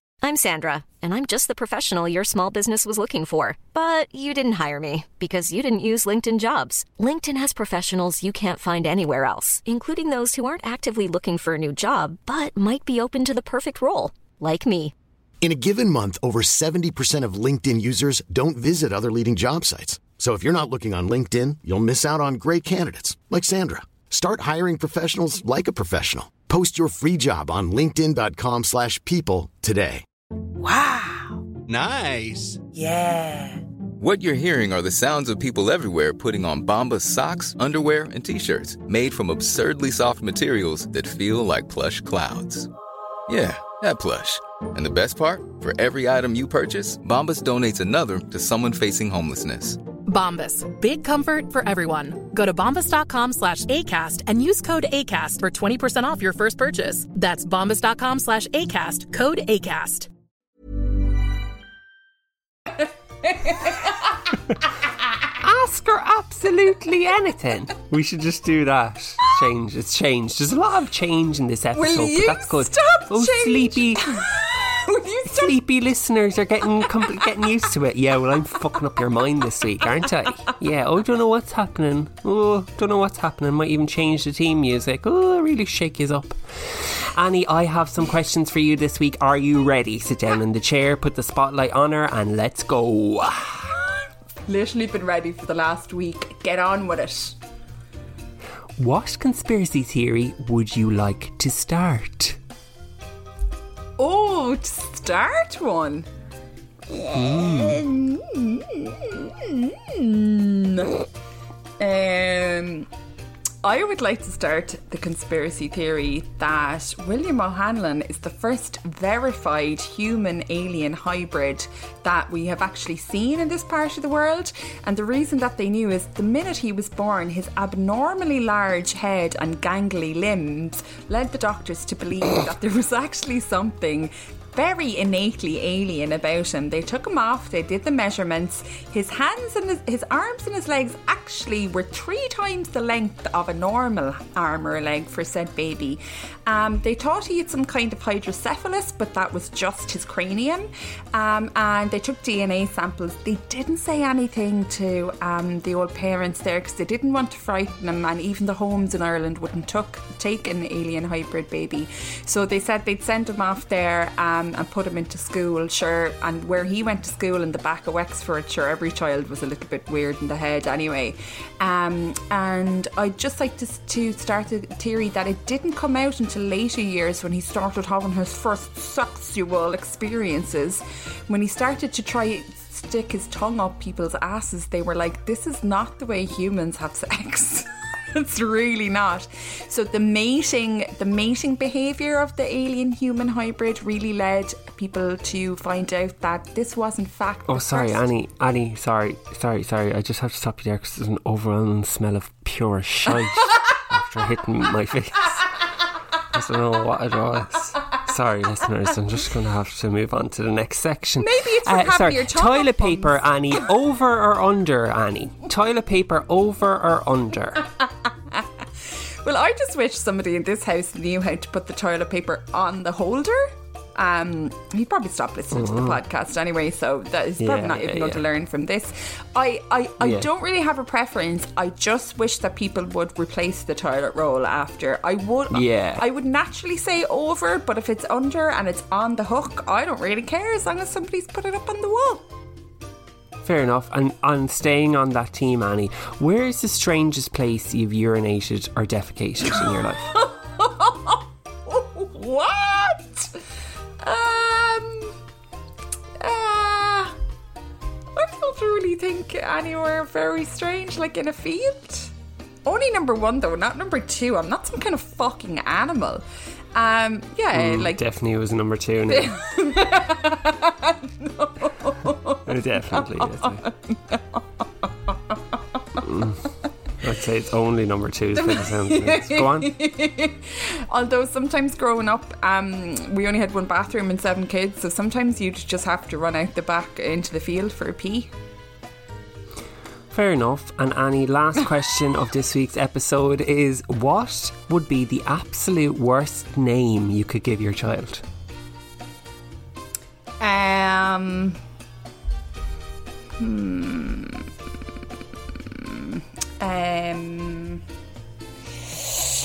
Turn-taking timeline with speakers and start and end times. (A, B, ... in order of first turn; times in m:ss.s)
0:00.2-0:14.9 A
0:15.4-0:30.0 B
0:31.7-0:32.6 B
0:34.0-0:42.7 C
0:43.3-0:49.9 C
0:50.0-1:00.1 D
1:05.3-1:14.2 E
1:11.7-1:15.6 F
1:15.3-1:33.7 E
1:34.5-1:37.4 F
1:38.8-1:42.4 E
1:44.0-1:46.1 F
1:46.9-1:51.0 F
1:47.1-1:47.8 E
1:51.8-1:52.9 F
1:53.6-3:18.0 F
3:17.5-3:25.5 E
3:26.3-3:37.7 E
3:31.2-3:33.2 F
3:39.2-4:02.2 F
3:45.5-3:46.0 E
3:47.4-3:48.2 E
3:50.0-3:50.3 E
3:55.5-3:56.0 E
4:03.4-4:10.2 E
4:10.2-4:11.2 F
4:11.7-4:13.3 F
4:14.0-4:15.2 F
4:16.2-4:17.2 F
4:18.2-4:22.1 F
4:22.6-4:26.2 F
4:26.7-4:28.0 F
4:27.5-4:29.3 E
4:29.1-4:34.4 F
4:32.4-4:33.6 E
4:36.0-4:36.5 E
4:37.0-4:39.7 E
4:38.4-4:48.3 F
4:50.1-4:58.2 E
5:00.4-5:01.6 F
5:03.4-5:04.5 F
5:05.7-5:07.8 F